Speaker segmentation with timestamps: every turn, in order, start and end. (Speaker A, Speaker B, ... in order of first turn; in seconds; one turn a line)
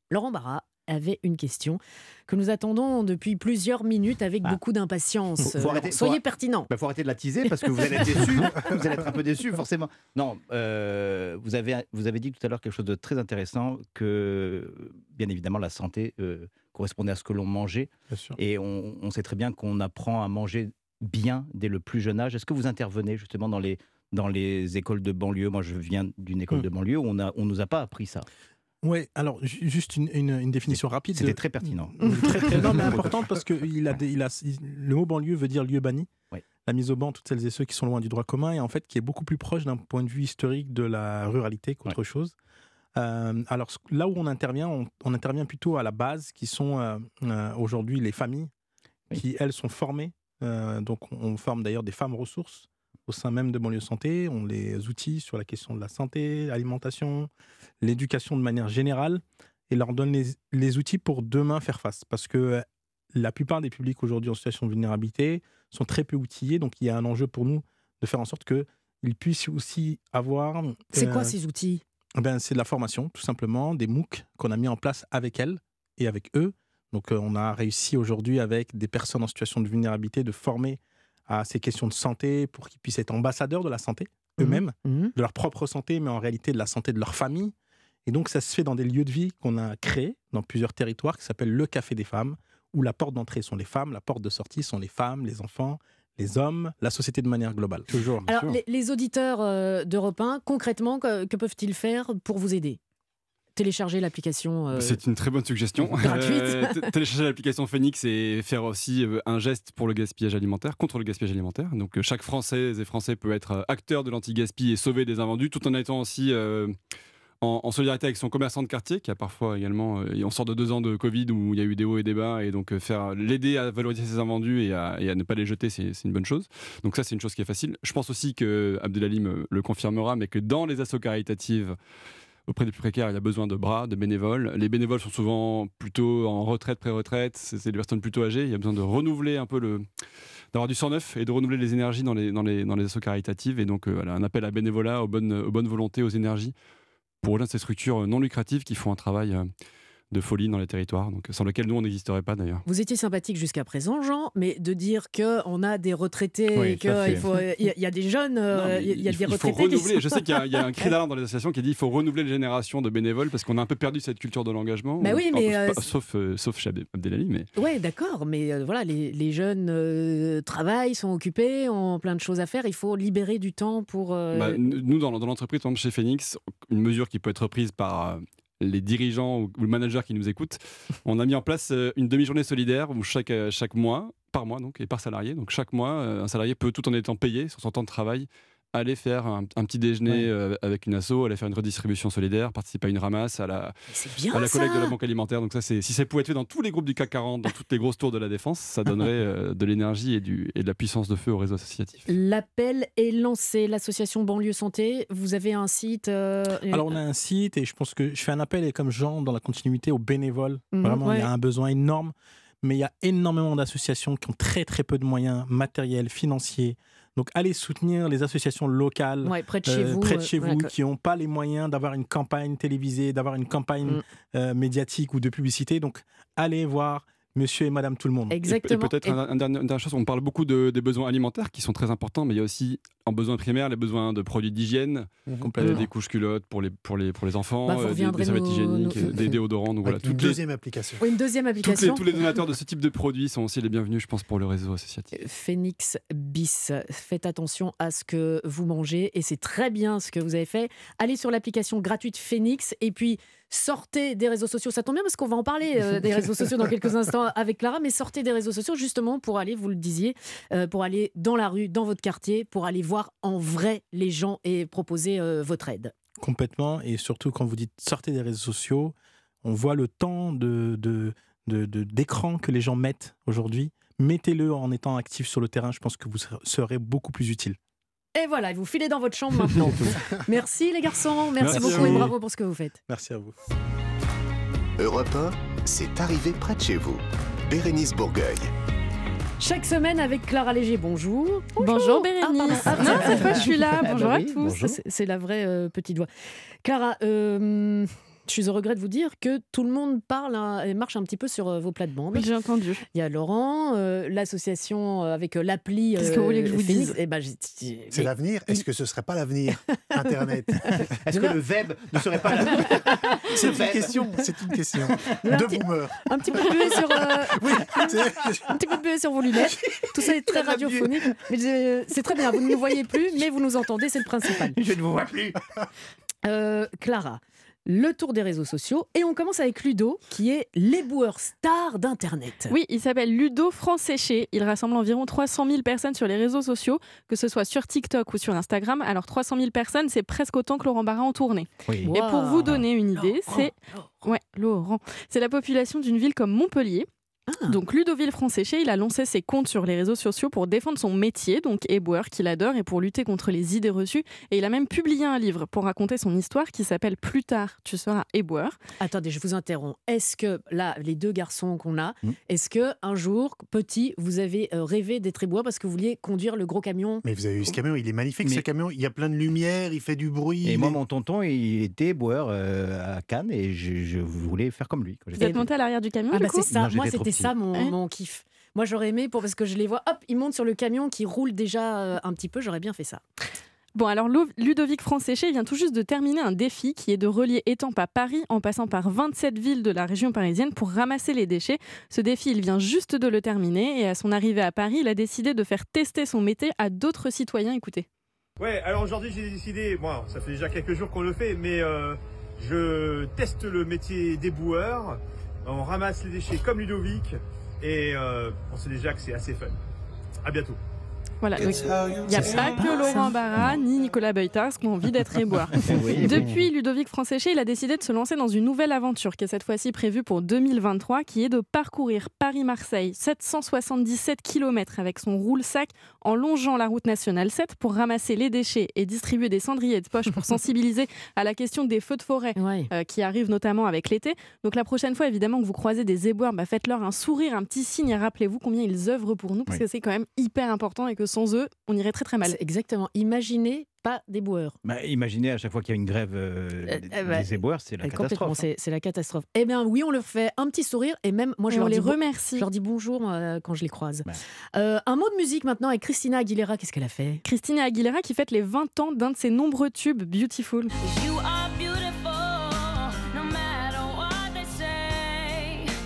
Speaker A: 0.1-6.7
Speaker B: 5.4-28.2
Speaker C: 18.1-18.4
Speaker C: 28.8-36.1
Speaker B: 30.7-33.2
Speaker C: 36.6-42.3
Speaker C: 43.0-48.5
Speaker C: 49.1-57.3
Speaker C: 57.8-71.3
Speaker A: 70.9-71.8
Speaker C: 72.2-87.5
Speaker A: 84.4-85.1
Speaker C: 88.0-98.2
Speaker D: 98.0-98.5
Speaker A: 98.3-102.8
Speaker A: 103.5-105.0
Speaker D: 104.7-116.8
Speaker A: 106.0-106.9
Speaker D: 117.4-131.8
Speaker D: 132.5-139.8
Speaker D: 140.5-146.5
Speaker D: 147.2-149.5
Speaker D: 150.1-152.7
Speaker A: 152.7-160.9
Speaker B: 156.5-157.3
Speaker D: 158.6-167.5
Speaker A: 165.0-165.8
Speaker A: 167.6-174.6
Speaker D: 174.3-193.8
Speaker A: 193.9-194.9
Speaker D: 194.3-202.1
Speaker A: 202.1-207.0
Speaker C: 206.7-228.4
Speaker A: 210.7-211.3
Speaker A: 219.2-220.7
Speaker A: 228.3-229.2
Speaker D: 228.5-240.4
Speaker C: 235.4-235.9
Speaker A: 237.7-239.3
Speaker E: 239.8-241.1
Speaker A: 241.0-242.0
Speaker D: 241.6-245.1
Speaker A: 245.1-265.9
Speaker C: 266.2-277.6
Speaker A: 278.1-282.8
Speaker D: 281.4-282.1
Speaker C: 281.5-282.1
Speaker C: 282.9-283.3
Speaker F: 284.8-288.5
Speaker A: 289.4-296.1
Speaker G: 291.6-294.6
Speaker B: 292.7-294.8
Speaker A: 296.6-302.3
Speaker G: 302.1-302.8
Speaker A: 302.9-308.6
Speaker G: 306.0-307.0
Speaker E: 307.9-310.8
Speaker A: 309.7-310.0
Speaker A: 310.6-311.3
Speaker B: 311.0-314.0
Speaker E: 312.0-318.6
Speaker A: 312.3-313.5
Speaker B: 314.9-315.2
Speaker A: 315.2-318.0
Speaker A: 318.5-324.6
Speaker B: 320.0-321.1
Speaker B: 324.4-325.4
Speaker A: 326.2-332.6
Speaker G: 332.5-346.9
Speaker B: 341.7-341.9
Speaker A: 341.9-344.1
Speaker A: 347.3-347.6
Speaker G: 347.5-358.6
Speaker A: 358.8-367.0
Speaker E: 367.0-370.8
Speaker B: 370.4-375.4
Speaker G: 375.1-376.5
Speaker A: 375.2-375.4
Speaker A: 376.1-383.0
Speaker B: 376.5-377.4
Speaker G: 383.8-397.9
Speaker H: 398.4-409.6
Speaker H: 410.2-410.6
Speaker G: 411.2-442.4
Speaker B: 412.2-412.5
Speaker A: 412.5-413.1
Speaker B: 415.6-416.3
Speaker E: 416.0-416.4
Speaker A: 432.4-432.7
Speaker A: 442.2-444.6
Speaker B: 444.6-448.4
Speaker A: 446.7-447.3
Speaker A: 447.8-457.2
Speaker G: 451.5-452.5
Speaker G: 457.2-460.7
Speaker I: 460.8-465.7